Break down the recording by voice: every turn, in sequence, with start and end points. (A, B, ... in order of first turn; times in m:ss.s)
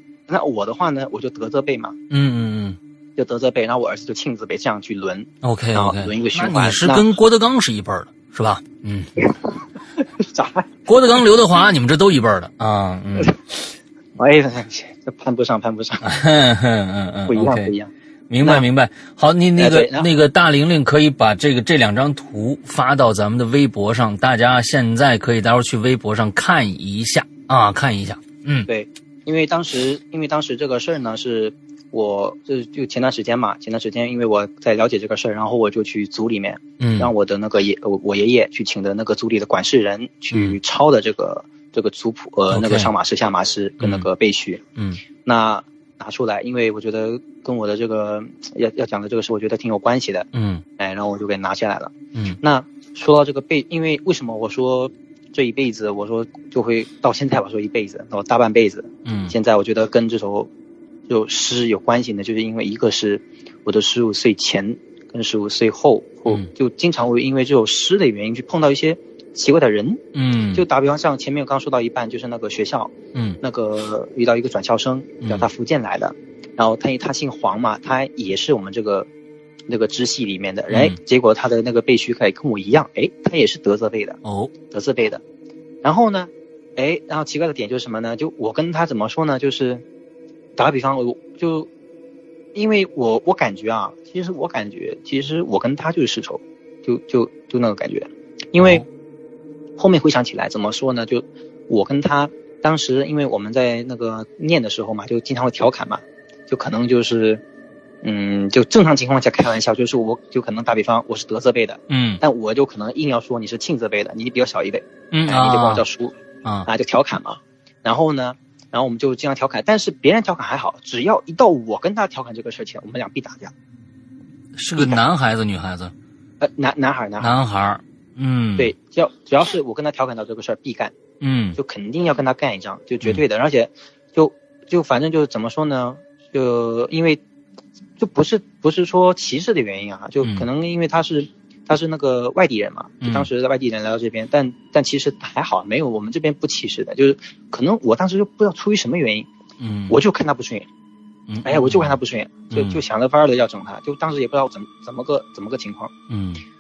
0:00.3-0:02.0 A
0:02.1-0:02.8 B
0:03.2-0:07.0 A
0:05.4-0:09.2 B
0:10.0-0:10.7 A
0:10.8-0:13.3 B
0:14.2-0:16.1 A
0:16.0-0:17.7 B
0:17.3-0:18.7 A
0:18.3-0:28.7 B
0:19.6-0:20.1 A
0:28.7-0:44.6 A
0:36.8-0:37.1 B
0:40.3-0:40.6 B
0:42.5-0:42.9 B
0:43.8-0:44.1 B
0:44.8-0:45.0 B
0:45.2-1:00.5 A
0:50.3-0:50.6 B
0:59.0-0:59.3 B
1:01.1-1:10.0 A
1:10.1-1:10.6 B
1:10.5-1:19.1 A
1:13.1-1:13.4 B
1:19.7-1:24.2 A
1:20.7-1:21.0 B
1:24.2-1:24.5 B
1:24.7-1:25.2 A
1:25.8-1:29.8 A
1:30.6-1:31.7 A
1:32.5-1:38.8 A
1:38.6-1:38.8 B
1:39.8-1:47.4 A
1:48.0-1:56.1 A
1:51.9-1:52.2 B
1:55.1-1:55.8 B
1:56.7-2:03.5 A
2:04.5-2:05.9 B
2:06.4-2:07.4 A
2:07.2-2:08.7 B
2:08.6-2:10.9 A
2:11.2-2:11.6 B
2:11.6-2:17.2 A
2:18.0-2:29.3 A
2:23.0-2:23.3 B
2:29.6-2:30.0 B
2:29.9-2:30.7 A
2:31.3-2:32.0 B
2:31.4-2:35.9 A
2:32.5-2:32.8 B
2:36.1-2:36.4 B